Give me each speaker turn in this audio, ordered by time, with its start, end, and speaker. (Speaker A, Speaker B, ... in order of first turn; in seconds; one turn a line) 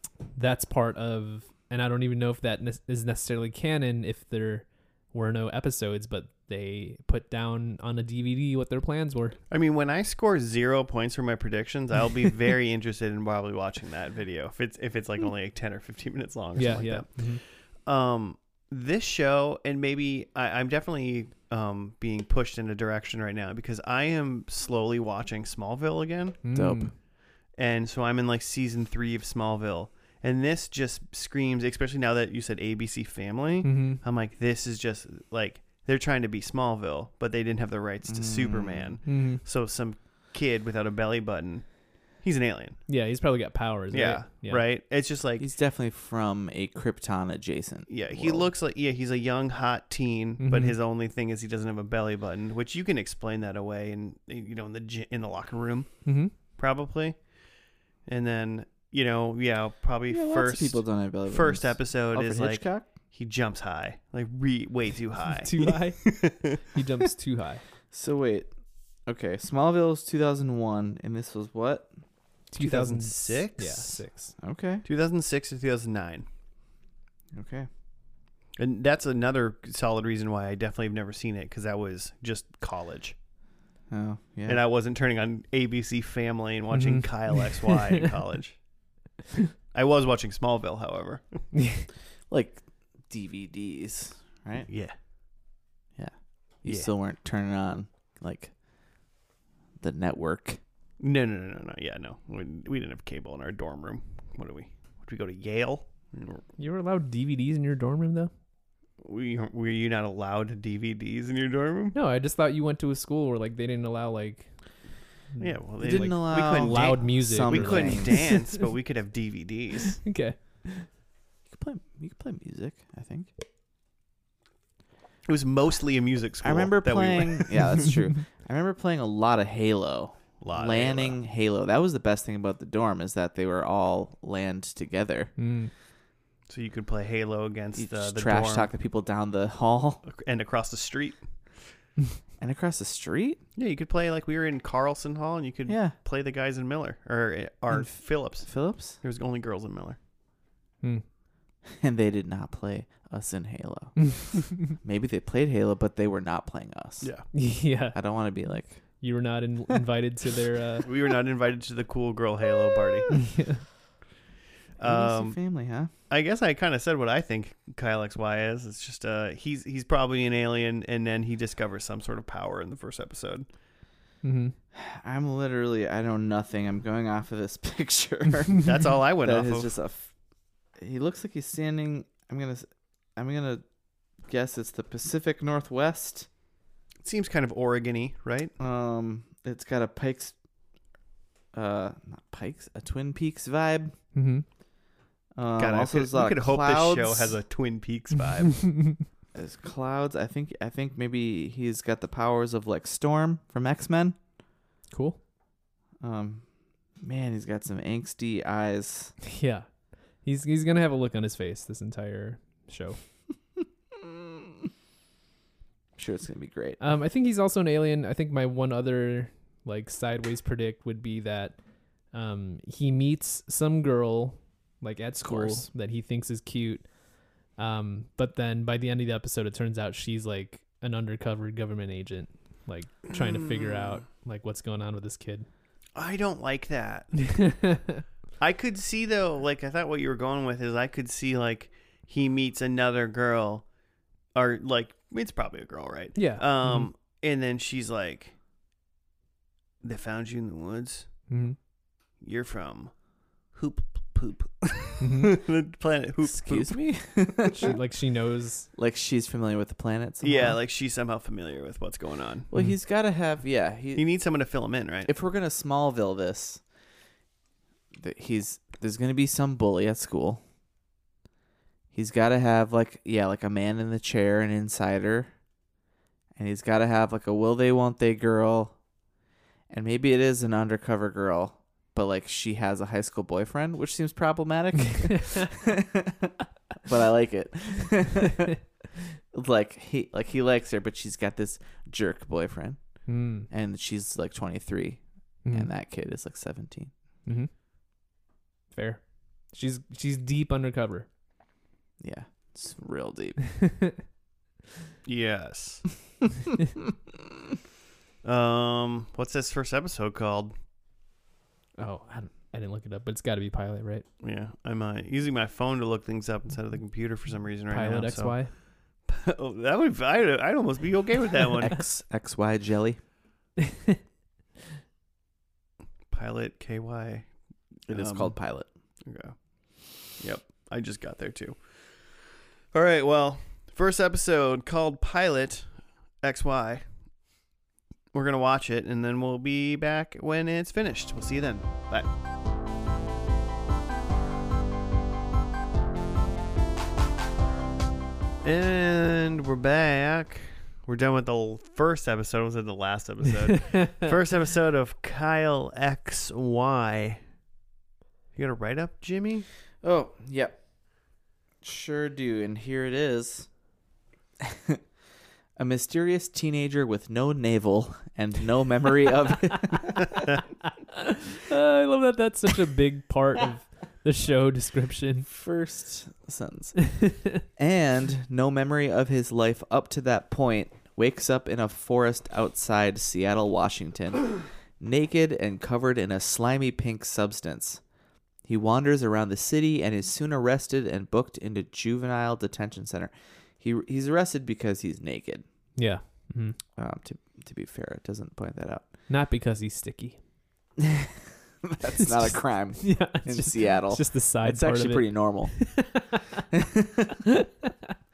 Speaker A: 0.4-9.4
Speaker B: 9.5-26.4
Speaker A: 16.6-17.4
Speaker A: 26.4-26.9
Speaker C: 26.5-26.9
Speaker B: 27.5-42.9
Speaker A: 33.6-34.0
Speaker C: 38.1-39.0
Speaker A: 39.0-39.4
Speaker A: 42.9-44.6
Speaker B: 43.9-45.5
Speaker C: 45.4-48.5
Speaker B: 47.9-57.3
Speaker A: 50.4-50.8
Speaker A: 56.0-56.3
Speaker B: 58.1-66.6
Speaker C: 60.1-62.9
Speaker A: 65.4-67.6
Speaker C: 67.9-68.5
Speaker C: 69.1-71.9
Speaker A: 72.5-74.3
Speaker B: 72.6-74.0
Speaker C: 74.4-74.8
Speaker B: 74.8-76.3
Speaker C: 77.3-77.7
Speaker B: 78.6-83.2
Speaker C: 83.9-84.6
Speaker B: 84.5-88.6
Speaker A: 86.7-88.0
Speaker B: 89.7-91.5
Speaker A: 91.5-91.9
Speaker C: 92.3-94.7
Speaker B: 94.7-95.0
Speaker C: 96.0-98.5
Speaker C: 99.8-100.6
Speaker B: 101.0-106.4
Speaker A: 106.6-108.3
Speaker B: 109.0-112.0
Speaker A: 111.9-114.5
Speaker A: 115.3-118.6
Speaker B: 115.4-120.0
Speaker C: 115.8-118.2
Speaker A: 120.0-120.9
Speaker C: 121.5-123.3
Speaker B: 125.3-127.6
Speaker C: 126.4-135.3
Speaker B: 130.4-131.2
Speaker A: 135.4-135.7
Speaker B: 136.5-138.7
Speaker C: 137.8-140.0
Speaker B: 140.0-141.2
Speaker C: 142.4-143.4
Speaker B: 143.6-150.0
Speaker C: 145.7-145.9
Speaker C: 148.4-149.0
Speaker C: 151.7-157.1
Speaker A: 154.0-154.7
Speaker B: 157.0-157.3
Speaker A: 157.3-158.0
Speaker C: 157.9-158.8
Speaker A: 159.0-160.9
Speaker B: 160.8-163.2
Speaker A: 163.1-163.7
Speaker B: 164.8-165.4
Speaker C: 164.8-165.9
Speaker B: 166.1-173.5
Speaker A: 174.2-174.6
Speaker C: 174.7-180.1
Speaker B: 178.6-179.8
Speaker C: 180.8-183.6
Speaker C: 184.3-186.3
Speaker B: 187.0-188.5
Speaker C: 188.6-190.3
Speaker C: 191.5-193.9
Speaker A: 194.1-194.4
Speaker C: 195.4-197.4
Speaker B: 195.6-198.7
Speaker A: 198.6-199.0
Speaker C: 199.3-204.2
Speaker A: 204.9-205.2
Speaker C: 206.0-206.4
Speaker C: 207.0-209.1
Speaker A: 209.2-209.7
Speaker A: 210.2-213.0
Speaker C: 216.0-216.8
Speaker A: 216.8-221.6
Speaker A: 222.1-226.9
Speaker C: 225.2-225.7
Speaker A: 227.5-235.5
Speaker B: 233.1-233.9
Speaker B: 235.9-237.6
Speaker A: 237.4-238.0
Speaker B: 238.4-243.7
Speaker B: 244.3-248.3
Speaker A: 246.2-246.9
Speaker B: 249.8-251.1
Speaker A: 251.3-251.6
Speaker B: 252.2-252.9
Speaker B: 253.5-256.8
Speaker A: 255.0-255.4
Speaker C: 256.2-257.8
Speaker A: 257.5-258.7
Speaker C: 258.8-260.6
Speaker B: 260.2-262.5
Speaker C: 262.5-264.0
Speaker B: 263.9-265.1
Speaker C: 265.1-266.6
Speaker C: 268.0-270.4
Speaker C: 271.9-275.3
Speaker C: 276.4-278.8
Speaker C: 279.7-288.6
Speaker C: 289.3-292.8
Speaker A: 293.1-293.5
Speaker C: 293.5-296.9
Speaker A: 295.4-295.7
Speaker A: 297.2-297.5
Speaker A: 298.7-301.1
Speaker C: 302.0-303.4
Speaker A: 303.7-303.9
Speaker B: 305.0-305.9
Speaker B: 308.2-310.5
Speaker A: 311.8-314.1
Speaker B: 314.2-318.5
Speaker A: 317.7-318.5
Speaker B: 319.1-321.9
Speaker C: 321.6-323.0
Speaker A: 323.7-324.0
Speaker B: 326.1-327.3
Speaker B: 327.9-328.4
Speaker C: 327.9-328.7
Speaker B: 329.0-329.4
Speaker B: 330.1-332.1
Speaker B: 332.7-336.8
Speaker B: 338.1-342.1
Speaker B: 348.4-357.2
Speaker B: 358.4-359.5
Speaker C: 359.8-360.6
Speaker C: 361.6-363.5
Speaker C: 364.4-364.8
Speaker C: 365.6-370.3
Speaker A: 370.9-375.3
Speaker C: 375.3-387.8
Speaker C: 388.5-395.4
Speaker A: 395.8-396.6
Speaker C: 396.8-398.9
Speaker A: 399.1-400.2
Speaker C: 400.8-405.8
Speaker A: 402.0-406.2
Speaker C: 406.5-407.2
Speaker A: 407.3-407.7